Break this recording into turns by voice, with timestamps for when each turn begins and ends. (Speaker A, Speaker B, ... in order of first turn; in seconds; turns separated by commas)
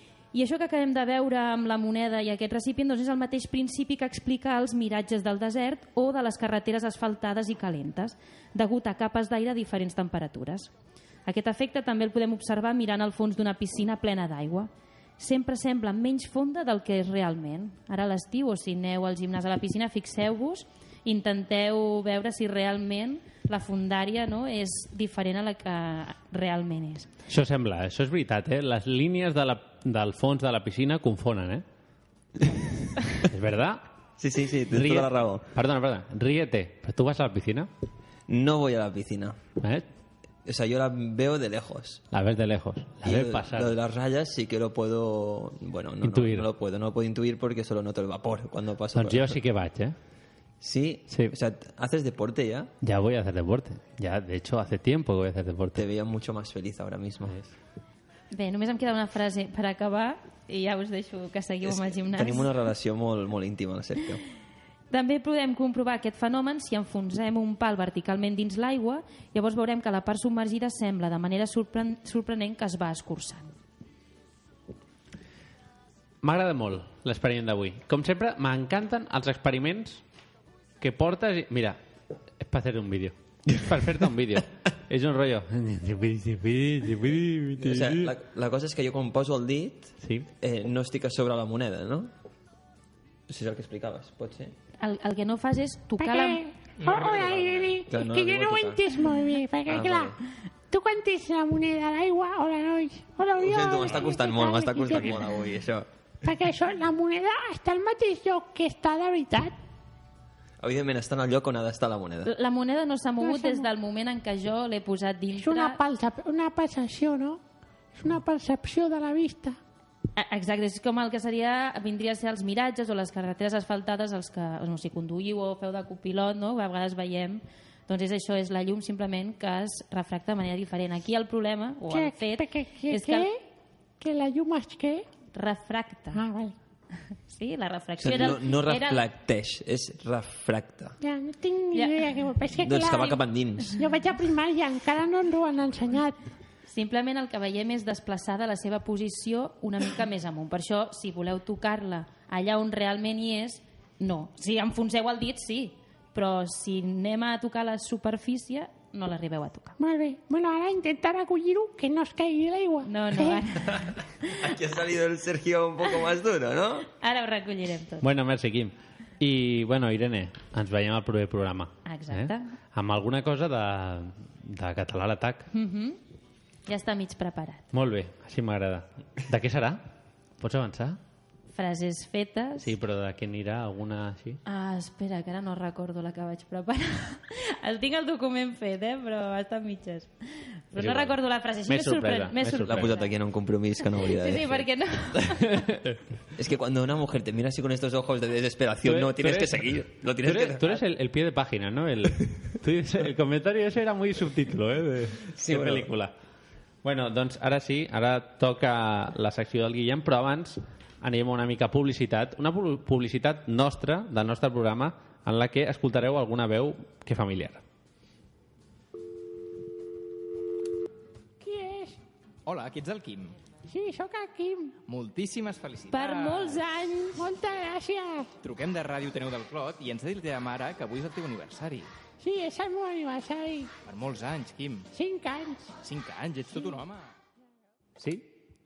Speaker A: 0.3-10.7, Speaker A: 11.2-27.1, Speaker B: 27.3-31.6, Speaker B: 33.2-33.8, Speaker C: 34.2-35.4, Speaker B: 34.7-37.7, Speaker C: 38.3-39.4, Speaker B: 39.6-39.8, Speaker C: 40.4-42.0, Speaker B: 42.1-43.7, Speaker C: 43.0-49.4, Speaker B: 46.0-46.5, Speaker B: 48.9-50.0, Speaker C: 50.6-52.7, Speaker B: 51.1-51.3, Speaker B: 52.8-55.8, Speaker C: 55.7-57.4, Speaker A: 58.3-62.5, Speaker C: 61.6-64.2, Speaker A: 64.9-73.5, Speaker B: 76.2-80.0, Speaker B: 80.8-81.8, Speaker B: 82.4-88.1, Speaker C: 87.6-92.1, Speaker B: 90.0-90.3, Speaker C: 93.3-94.5, Speaker A: 94.8-96.4, Speaker D: 96.0-100.1, Speaker E: 96.8-97.7, Speaker C: 97.9-98.8, Speaker C: 99.7-100.2, Speaker D: 100.7-105.2, Speaker C: 103.3-105.9, Speaker D: 106.2-109.5, Speaker C: 110.6-112.3, Speaker A: 112.2-115.8, Speaker D: 113.2-113.7, Speaker D: 115.3-117.4, Speaker D: 117.9-119.6, Speaker A: 120.2-133.3, Speaker D: 131.9-133.4, Speaker D: 134.0-135.1, Speaker A: 135.3-136.2, Speaker D: 136.1-136.5, Speaker A: 137.3-139.0, Speaker C: 138.0-140.9, Speaker D: 141.0-143.2, Speaker A: 141.7-142.1, Speaker C: 142.6-143.8, Speaker D: 143.7-146.2, Speaker A: 146.7-159.8, Speaker D: 159.8-163.4, Speaker A: 162.8-164.5, Speaker C: 164.2-166.9, Speaker A: 167.0-168.1, Speaker B: 168.0-175.5, Speaker A: 171.8-172.5, Speaker A: 175.5-176.0, Speaker A: 176.7-177.7, Speaker B: 177.7-179.8, Speaker B: 180.4-181.0, Speaker A: 181.5-182.7, Speaker B: 182.6-184.4, Speaker A: 184.4-193.1, Speaker B: 190.7-191.1, Speaker B: 191.7-192.9, Speaker C: 192.6-194.7, Speaker A: 193.9-195.7, Speaker B: 195.4-196.0, Speaker C: 196.3-200.8, Speaker B: 198.8-206.1, Speaker C: 205.3-205.9, Speaker B: 206.8-217.6, Speaker D: 221.4-222.0, Speaker E: 222.4-223.3, Speaker D: 223.7-224.7, Speaker E: 224.9-226.6, Speaker A: 225.9-227.2, Speaker D: 227.1-228.3, Speaker E: 228.4-231.9, Speaker D: 232.2-233.7, Speaker E: 233.8-234.9, Speaker D: 234.9-235.7, Speaker E: 235.8-237.1, Speaker B: 238.0-238.3